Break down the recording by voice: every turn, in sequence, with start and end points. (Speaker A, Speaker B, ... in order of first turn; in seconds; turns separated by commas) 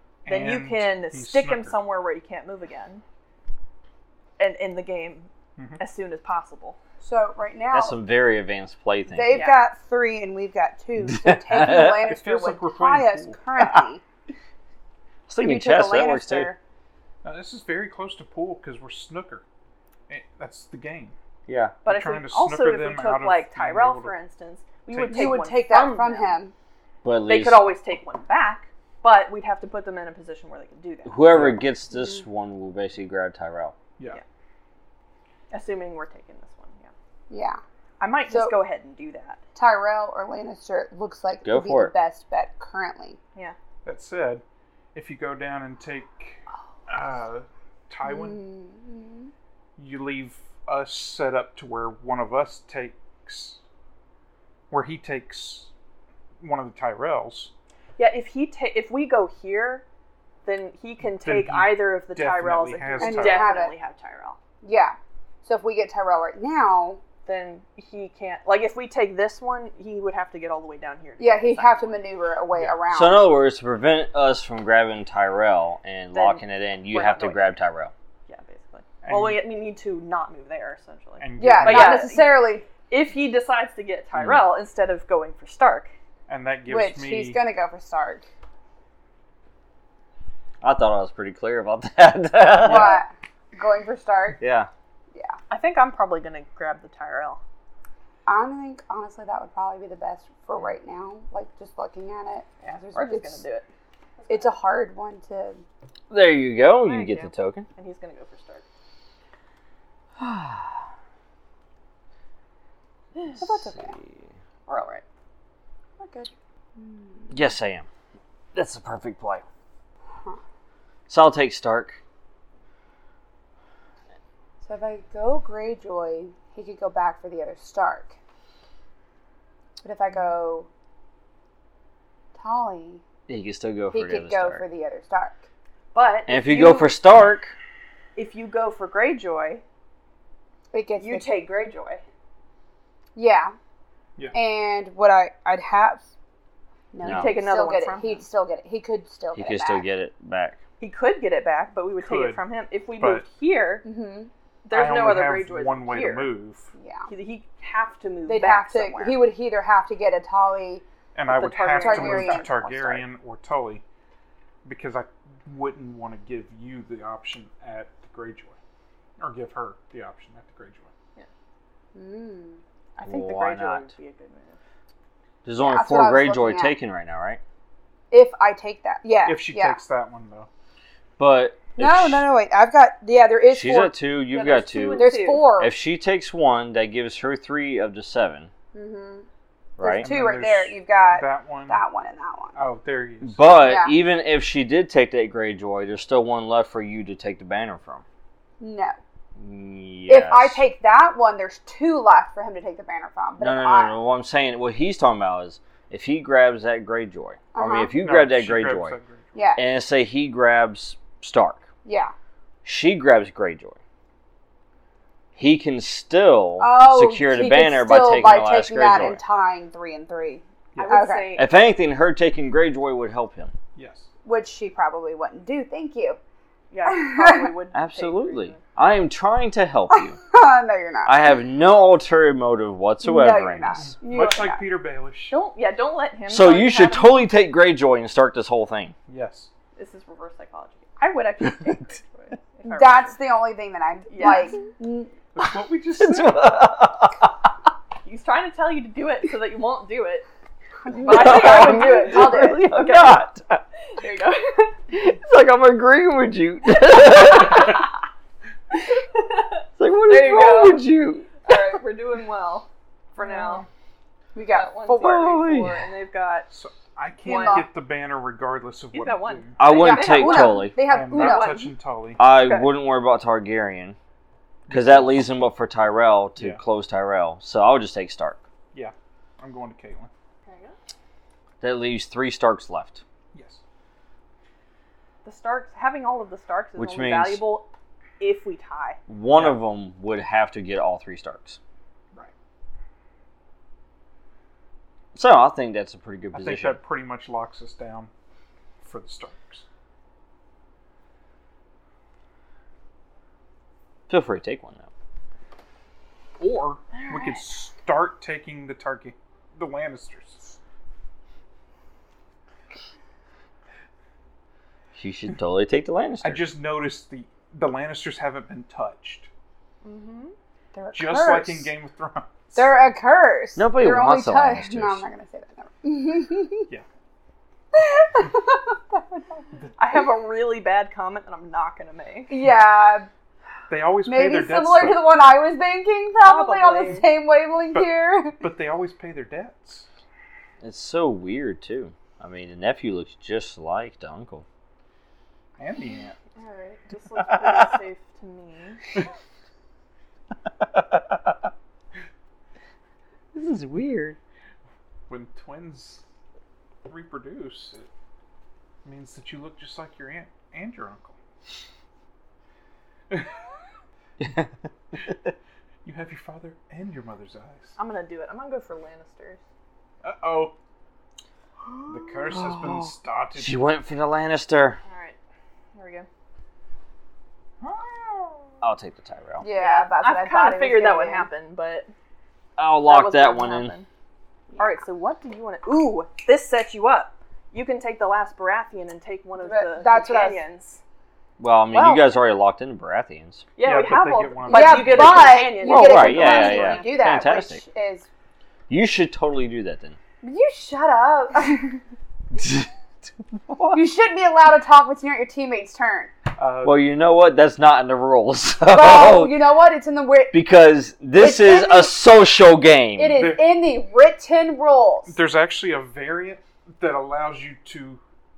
Speaker A: 0.2-1.8, Speaker B: 0.3-3.0, Speaker B: 4.4-6.8, Speaker C: 7.0-8.0, Speaker D: 7.7-9.4, Speaker C: 9.1-14.0, Speaker B: 9.3-9.6, Speaker D: 11.1-12.1, Speaker A: 12.0-13.4, Speaker D: 15.3-16.5, Speaker C: 15.4-16.6, Speaker A: 17.2-19.4, Speaker A: 20.1-21.1, Speaker D: 21.5-21.8, Speaker A: 21.9-24.1, Speaker B: 21.9-26.4, Speaker A: 24.9-25.4, Speaker C: 25.1-26.5, Speaker D: 27.0-27.7, Speaker B: 27.3-31.2, Speaker D: 31.1-33.8, Speaker A: 31.3-31.6, Speaker B: 35.5-36.9, Speaker C: 37.3-37.6, Speaker B: 38.0-39.4, Speaker C: 38.3-38.6, Speaker C: 39.5-43.2, Speaker D: 41.5-41.9, Speaker A: 43.9-44.4, Speaker A: 44.9-48.5, Speaker C: 48.0-49.3, Speaker A: 49.8-53.6, Speaker A: 54.7-55.7, Speaker A: 56.4-57.5, Speaker B: 58.0-59.8, Speaker B: 60.5-64.4, Speaker A: 61.0-63.5, Speaker C: 63.0-63.7, Speaker C: 64.6-67.0, Speaker B: 67.2-72.0, Speaker C: 71.2-73.3, Speaker A: 72.5-72.8, Speaker D: 72.9-77.9, Speaker B: 76.1-77.5, Speaker B: 78.3-85.9, Speaker A: 79.0-79.4, Speaker A: 81.2-82.1, Speaker C: 81.4-82.7, Speaker A: 86.3-87.4, Speaker C: 86.7-88.3, Speaker D: 90.6-93.0, Speaker C: 92.6-94.4, Speaker D: 94.4-94.7, Speaker B: 95.5-97.4, Speaker C: 98.3-103.4, Speaker B: 102.6-103.7, Speaker B: 104.2-104.5, Speaker C: 104.3-105.6, Speaker D: 106.1-107.7, Speaker B: 106.8-108.6, Speaker D: 110.2-110.8, Speaker C: 113.4-114.0, Speaker D: 113.7-114.2, Speaker B: 114.7-115.0, Speaker C: 116.0-117.4, Speaker D: 117.3-117.9, Speaker D: 118.5-119.4, Speaker D: 121.1-122.0, Speaker C: 124.6-128.2, Speaker C: 129.8-130.7, Speaker C: 132.3-133.0, Speaker D: 133.3-134.6, Speaker C: 133.9-135.4, Speaker B: 135.9-136.9, Speaker D: 136.3-137.6, Speaker B: 138.2-139.6, Speaker C: 140.7-141.3, Speaker B: 141.0-142.0, Speaker C: 143.2-143.6, Speaker C: 144.3-146.1, Speaker C: 146.9-149.9, Speaker D: 147.0-147.3, Speaker B: 147.1-148.2, Speaker D: 149.3-150.6, Speaker B: 150.8-153.9, Speaker A: 152.0-152.4, Speaker A: 153.0-153.2, Speaker C: 153.8-154.3, Speaker B: 154.7-156.3, Speaker A: 154.7-156.7, Speaker C: 156.8-157.1, Speaker B: 157.1-159.2, Speaker C: 158.3-160.8, Speaker A: 161.2-163.8, Speaker B: 161.3-162.7, Speaker C: 161.8-163.0, Speaker A: 164.6-168.6, Speaker A: 169.2-170.9, Speaker C: 171.9-172.6, Speaker B: 173.0-174.6, Speaker D: 173.0-173.9, Speaker D: 175.4-177.4, Speaker C: 175.6-176.8, Speaker C: 178.1-179.8, Speaker A: 179.2-180.5, Speaker D: 181.2-182.3, Speaker C: 181.8-184.0, Speaker D: 183.5-188.5, Speaker B: 184.3-185.5, Speaker C: 184.9-185.8, Speaker C: 188.7-189.3, Speaker D: 189.8-190.1, Speaker C: 189.8-192.6, Speaker A: 190.0-191.8, Speaker A: 192.6-193.6, Speaker D: 193.2-198.0, Speaker C: 193.6-194.0, Speaker C: 198.6-199.0, Speaker D: 199.4-200.6, Speaker C: 200.1-204.0, Speaker D: 203.4-209.0, Speaker C: 207.5-208.0, Speaker A: 208.0-209.4, Speaker C: 209.3-209.6, Speaker D: 209.6-211.6, Speaker C: 211.8-212.1, Speaker D: 212.6-213.8, Speaker D: 215.4-219.2, Speaker C: 216.6-221.4, Speaker A: 220.8-221.0, Speaker B: 220.8-221.5, Speaker D: 221.4-223.5, Speaker A: 223.8-224.1, Speaker C: 224.2-226.2, Speaker B: 226.7-228.6, Speaker C: 226.9-227.5, Speaker D: 227.7-230.2, Speaker C: 229.9-231.2, Speaker D: 231.1-233.9, Speaker C: 233.0-234.6, Speaker A: 233.8-235.4, Speaker B: 235.3-237.2, Speaker D: 236.3-238.9, Speaker A: 239.1-239.5, Speaker B: 239.8-243.1, Speaker C: 242.7-245.1, Speaker B: 244.1-244.6, Speaker A: 245.3-246.5, Speaker D: 246.0-247.3, Speaker B: 248.1-250.3, Speaker C: 250.8-252.7, Speaker D: 251.0-253.6, Speaker B: 251.0-253.2, Speaker B: 253.9-254.8, Speaker D: 254.9-257.9, Speaker B: 259.2-259.5, Speaker D: 259.8-261.4, Speaker B: 260.1-260.9, Speaker B: 261.4-263.6, Speaker A: 263.2-263.7, Speaker C: 264.4-265.3, Speaker B: 264.5-266.5, Speaker D: 265.0-265.8, Speaker A: 266.5-269.6, Speaker B: 267.2-267.7, Speaker C: 267.2-267.7, Speaker B: 268.9-271.6, Speaker D: 269.6-270.8, Speaker C: 269.7-271.7, Speaker A: 270.8-272.2, Speaker D: 272.2-274.0, Speaker B: 272.3-272.7, Speaker A: 274.7-275.2, Speaker D: 274.7-278.4, Speaker A: 276.4-276.6, Speaker A: 278.7-280.1, Speaker B: 280.4-280.8, Speaker D: 281.6-283.0, Speaker A: 283.3-283.6, Speaker B: 285.2-289.0, Speaker D: 286.8-287.4, Speaker D: 289.1-291.6, Speaker A: 289.3-289.6, Speaker D: 295.1-296.8, Speaker A: 296.3-298.1, Speaker A: 298.8-299.6, Speaker D: 304.1-304.9, Speaker A: 306.4-310.6, Speaker B: 306.9-307.4, Speaker D: 314.9-316.4, Speaker A: 316.2-319.3, Speaker B: 319.8-320.4, Speaker C: 320.7-321.7, Speaker A: 320.9-322.8, Speaker C: 322.6-326.7, Speaker D: 323.6-325.0, Speaker C: 327.7-329.4, Speaker B: 329.8-332.4, Speaker C: 332.3-333.1, Speaker A: 333.7-335.1, Speaker C: 334.1-338.4, Speaker B: 336.3-337.1, Speaker A: 337.7-339.9, Speaker D: 340.6-344.4, Speaker A: 345.6-346.2, Speaker B: 346.4-348.8, Speaker D: 353.3-354.2, Speaker A: 355.1-356.0, Speaker A: 356.9-357.9, Speaker A: 358.8-361.2, Speaker A: 363.1-363.4, Speaker D: 364.2-364.5, Speaker A: 365.8-367.8, Speaker B: 367.8-369.4, Speaker A: 370.0-370.6, Speaker A: 371.9-373.6, Speaker D: 372.3-374.8, Speaker B: 374.8-375.2, Speaker B: 375.7-376.1, Speaker A: 377.6-378.5, Speaker D: 378.6-379.4, Speaker C: 379.4-381.3, Speaker B: 379.5-381.9, Speaker D: 382.6-383.7, Speaker B: 382.8-383.9, Speaker B: 384.6-390.8, Speaker C: 389.4-390.4, Speaker D: 391.4-393.5, Speaker C: 391.7-392.1, Speaker B: 393.6-397.1, Speaker A: 393.6-395.4, Speaker C: 394.5-398.1, Speaker D: 395.6-397.6, Speaker D: 398.7-400.0, Speaker C: 400.2-401.8, Speaker D: 402.3-402.7, Speaker D: 403.5-403.8, Speaker C: 403.7-406.1, Speaker A: 406.4-406.9, Speaker D: 406.6-409.3, Speaker C: 408.7-410.4, Speaker D: 410.3-413.2, Speaker C: 411.2-411.9, Speaker C: 413.0-415.2, Speaker A: 413.2-413.5, Speaker A: 415.1-418.0